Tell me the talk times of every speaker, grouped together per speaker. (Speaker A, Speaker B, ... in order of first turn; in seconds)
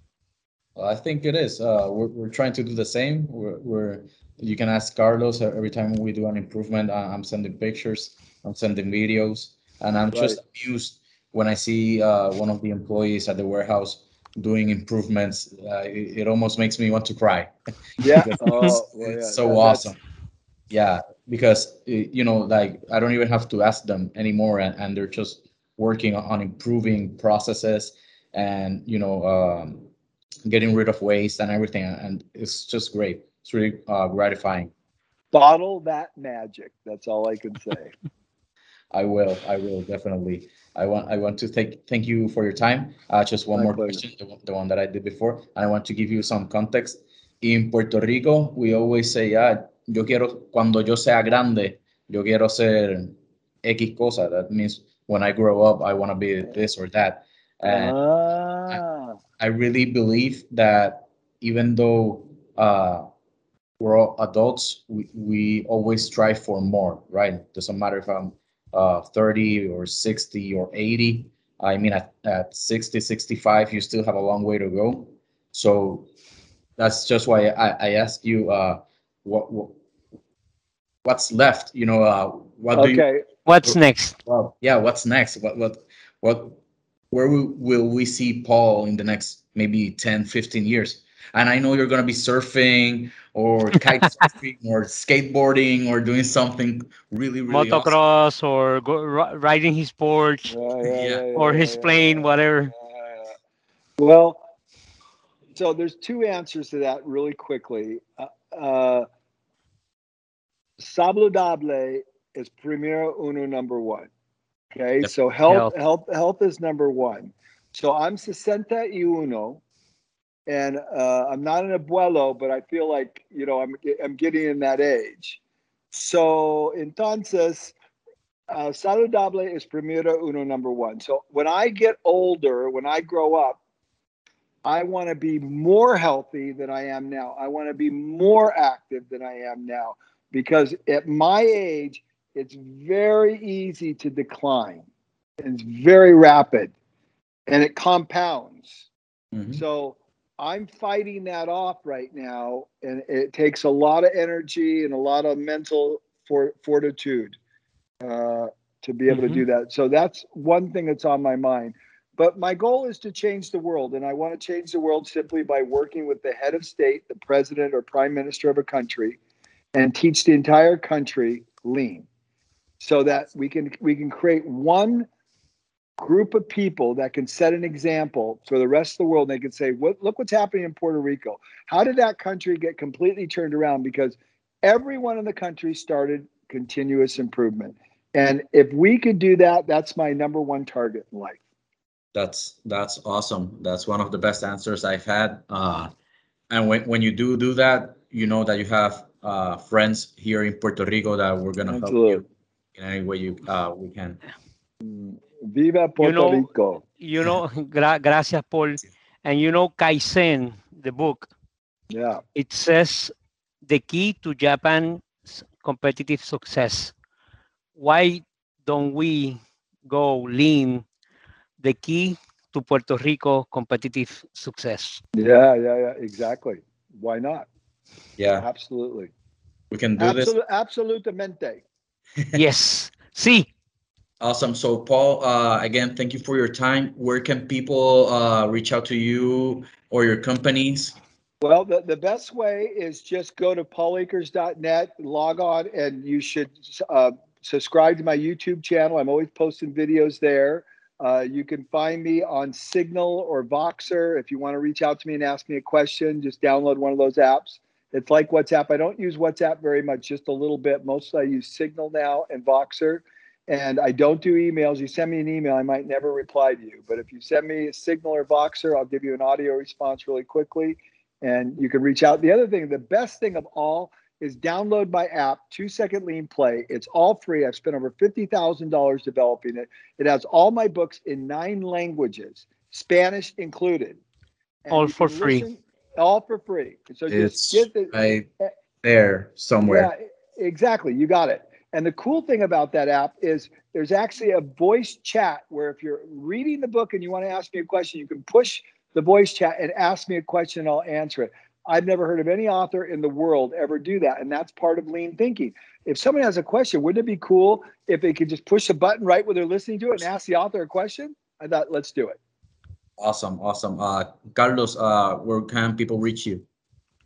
Speaker A: 0.8-17.5, 18.2-20.0, 20.7-29.9, 30.4-34.7, 38.9-57.9, 59.4-63.0, 63.8-76.1, 76.8-79.8, 81.0-83.0, 83.6-86.6, 87.1-98.0, 100.8-101.2, 149.3-149.6, 192.1-195.9, 196.5-204.2, 228.2-228.5, 229.7-230.3, 234.2-240.9, 287.1-288.3, 288.8-289.9, 313.0-316.4
Speaker B: 10.1-10.4, 18.0-19.9, 35.3-37.9, 43.5-44.0, 57.6-59.1, 82.7-83.2, 100.5-103.3, 104.0-104.4, 105.5-109.0, 110.8-114.1, 114.7-119.6, 120.5-125.4, 125.9-127.7, 128.5-133.6, 134.6-144.8, 145.4-146.7, 147.5-148.9, 149.5-157.3, 158.0-169.2, 169.7-172.1, 172.8-175.1, 176.0-191.4, 201.6-202.2, 204.8-206.8, 211.9-212.2, 225.2-227.5, 228.4-229.1, 230.0-231.6, 241.4-284.0, 284.6-287.9, 289.6-312.2
Speaker C: 83.5-84.2, 97.5-100.5, 101.3-102.7, 115.5-115.7, 159.1-159.4, 206.0-211.3, 212.3-213.1, 213.6-216.9, 217.7-220.8, 221.6-225.0, 232.3-233.5, 284.7-285.5